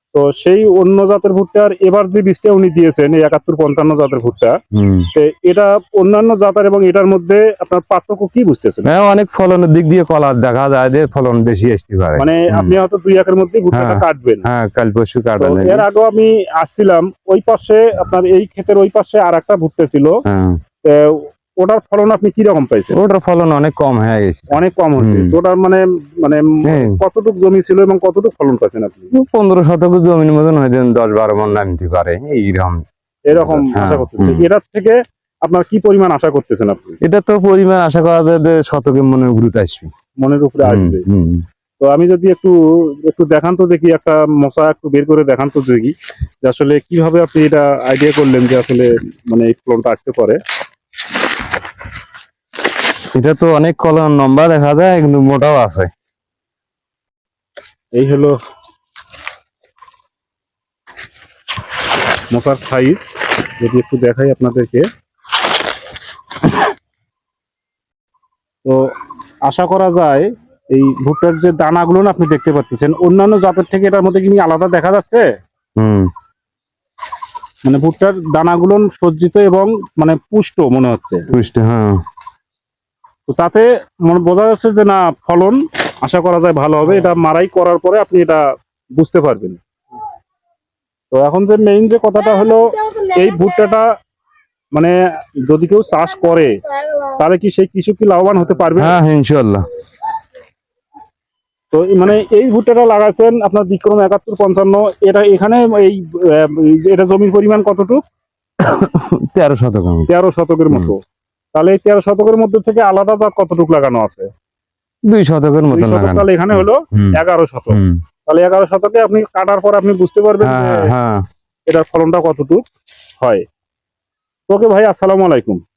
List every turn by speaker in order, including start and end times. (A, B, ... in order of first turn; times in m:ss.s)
0:00.1-0:04.6 A
0:04.7-0:05.1 B
0:05.1-0:08.9 A
0:08.8-0:12.8 B
0:12.2-0:14.4 A
0:13.7-0:15.8 B
0:15.4-0:20.2 A
0:20.2-0:20.6 B
0:20.8-0:23.0 A
0:22.9-0:25.3 B
0:24.5-0:29.1 A
0:26.6-0:27.0 B
0:29.1-0:34.4 B
0:33.3-0:37.0 A
0:37.0-0:39.9 B
0:40.2-0:41.0 A
0:40.6-0:41.4 B
0:41.8-0:50.4 A
0:53.1-0:55.9 B
0:57.9-0:58.3 A
1:02.3-1:04.9 A
1:09.4-1:15.2 A
1:15.8-1:16.1 B
1:17.6-1:21.2 A
1:21.3-1:22.0 B
1:23.3-1:28.4 A
1:29.0-1:29.6 A
1:31.1-1:33.9 A
1:35.4-1:36.5 A
1:37.1-1:39.0 A
1:38.8-1:39.6 B
1:41.7-1:48.0 A
1:48.6-1:50.1 B
1:50.1-1:51.0 A
1:51.5-1:54.3 A
1:55.0-1:57.2 B
1:55.7-2:00.9 A
1:57.7-1:58.0 B
2:00.4-2:01.2 B
2:01.7-2:02.6 A
2:04.5-2:05.6 A